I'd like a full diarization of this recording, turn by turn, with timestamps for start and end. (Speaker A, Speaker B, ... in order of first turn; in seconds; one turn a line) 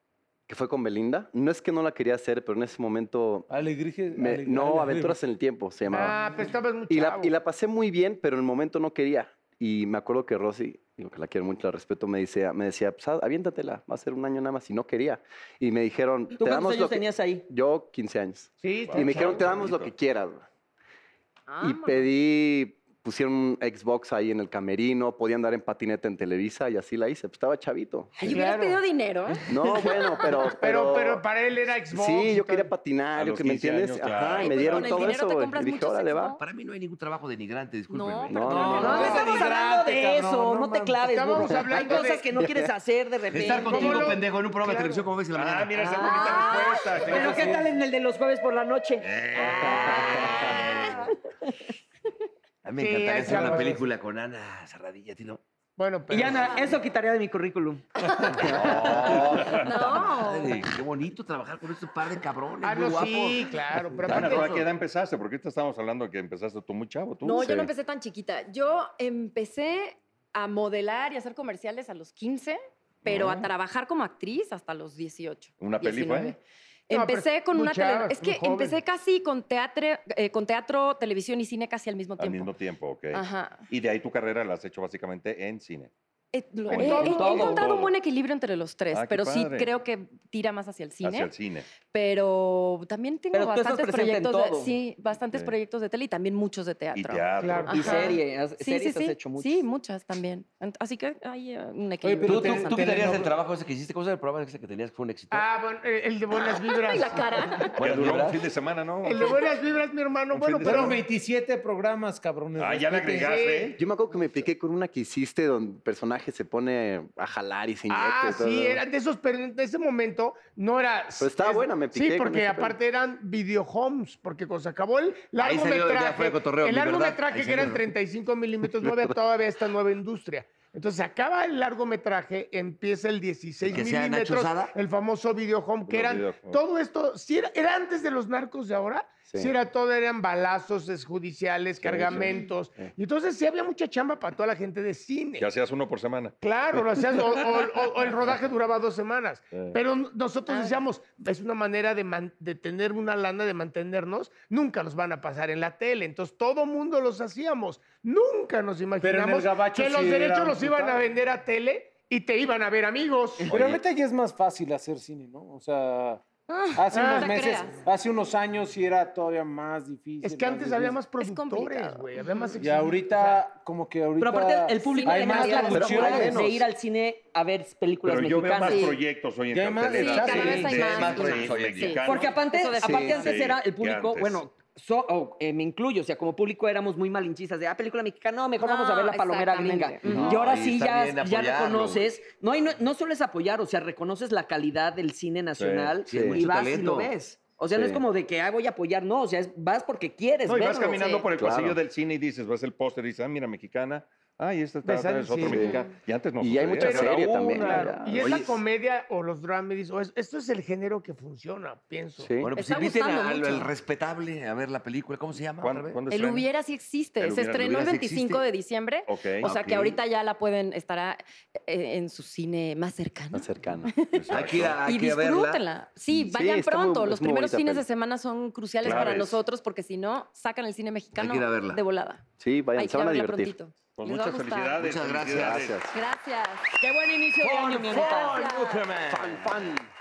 Speaker A: 0.5-3.5
Speaker B: 3.5-5.2
Speaker A: 4.1-6.3
Speaker C: 5.9-7.3
Speaker A: 6.9-20.4
Speaker D: 16.4-17.4
Speaker C: 18.6-19.5
Speaker E: 18.9-19.9
Speaker F: 21.5-22.1
Speaker A: 21.6-28.4
Speaker F: 28.2-30.5
Speaker C: 28.2-28.8
Speaker D: 28.3-28.6
Speaker A: 29.5-31.2
Speaker C: 30.4-32.7
Speaker A: 31.9-36.4
Speaker E: 33.1-35.1
Speaker F: 34.3-36.4
Speaker G: 36.4-39.2
Speaker F: 37.9-39.4
Speaker A: 38.3-38.8
Speaker B: 38.5-41.0
Speaker C: 38.8-39.3
Speaker D: 38.8-44.2
Speaker C: 41.0-42.3
Speaker A: 42.4-42.7
Speaker G: 43.3-45.8
Speaker C: 43.4-45.0
Speaker E: 45.3-47.6
Speaker F: 45.8-47.1
Speaker D: 45.8-50.4
Speaker B: 47.0-47.7
Speaker G: 49.1-50.6
Speaker E: 49.2-50.8
Speaker F: 49.4-51.1
Speaker G: 52.6-55.4
Speaker C: 52.8-53.9
Speaker B: 53.2-53.6
Speaker C: 55.8-56.6
Speaker D: 56.1-57.8
Speaker F: 58.1-60.7
Speaker E: 58.4-60.0
Speaker G: 58.4-64.7
Speaker C: 62.6-64.5
Speaker E: 64.0-67.7
Speaker F: 67.2-76.4
Speaker E: 73.0-73.5
Speaker E: 75.6-76.3
Speaker F: 76.9-82.5
Speaker C: 76.9-78.8
Speaker E: 82.2-85.9
Speaker F: 83.1-83.6
Speaker F: 86.3-91.3
Speaker C: 86.7-87.5
Speaker E: 86.7-88.0
Speaker D: 86.8-87.6
Speaker E: 88.9-89.7
Speaker E: 91.0-91.7
Speaker F: 91.8-103.1
Speaker D: 93.3-94.7
Speaker E: 96.9-98.1
Speaker C: 97.4-98.0
Speaker D: 97.7-99.6
Speaker B: 102.0-103.3
Speaker G: 102.2-105.5
Speaker C: 105.3-107.4
Speaker F: 106.3-107.8
Speaker G: 107.8-108.5
Speaker E: 107.8-109.5
Speaker C: 109.0-111.0
Speaker E: 110.3-111.0
Speaker B: 110.6-113.4
Speaker E: 112.6-113.8
Speaker C: 113.1-113.8
Speaker A: 113.8-118.8
Speaker C: 117.9-145.5
Speaker A: 121.2-122.8
Speaker G: 125.4-127.9
Speaker G: 133.7-134.7
Speaker E: 135.9-136.6
Speaker A: 141.8-142.3
Speaker E: 145.4-146.3
Speaker C: 146.4-163.5
Speaker F: 150.5-150.8
Speaker B: 159.0-161.0
Speaker E: 163.5-163.8
Speaker B: 163.5-166.2
Speaker F: 166.5-167.8
Speaker B: 166.7-171.0
Speaker C: 166.9-167.4
Speaker C: 170.2-173.4
Speaker F: 171.1-172.4
Speaker B: 172.6-176.5
Speaker D: 174.2-178.9
Speaker F: 174.8-176.4
Speaker A: 176.1-176.5
Speaker E: 178.0-182.4
Speaker F: 178.6-179.0
Speaker B: 179.5-180.8
Speaker F: 179.8-183.4
Speaker D: 180.3-180.7
Speaker G: 180.5-182.0
Speaker D: 182.0-201.2
Speaker A: 182.8-183.1
Speaker E: 183.0-184.4
Speaker F: 188.6-190.3
Speaker A: 190.0-190.3
Speaker G: 190.1-192.1
Speaker E: 195.6-196.0
Speaker G: 196.1-197.1
Speaker A: 196.1-196.4
Speaker A: 197.7-198.0
Speaker E: 200.4-208.5
Speaker A: 201.4-201.8
Speaker C: 204.8-205.7
Speaker A: 205.4-205.8
Speaker F: 205.5-205.9
Speaker A: 206.4-208.5
Speaker C: 206.8-212.3
Speaker A: 212.2-212.5
Speaker G: 212.4-216.0
Speaker F: 212.5-213.7
Speaker E: 215.6-216.5
Speaker F: 216.1-224.3
Speaker E: 217.2-217.9
Speaker G: 217.5-218.4
Speaker E: 219.1-219.5
Speaker G: 219.4-220.0
Speaker A: 223.3-223.9
Speaker E: 224.1-224.8
Speaker G: 224.3-225.6
Speaker F: 224.8-234.8
Speaker A: 226.1-227.8
Speaker E: 228.8-229.4
Speaker G: 228.9-229.2
Speaker G: 231.1-231.8
Speaker A: 232.4-233.5
Speaker E: 234.0-235.9
Speaker G: 234.8-235.7
Speaker A: 235.4-235.9
Speaker F: 235.9-236.7
Speaker D: 236.8-238.4
Speaker G: 237.4-239.7
Speaker F: 237.7-238.9
Speaker A: 239.1-239.7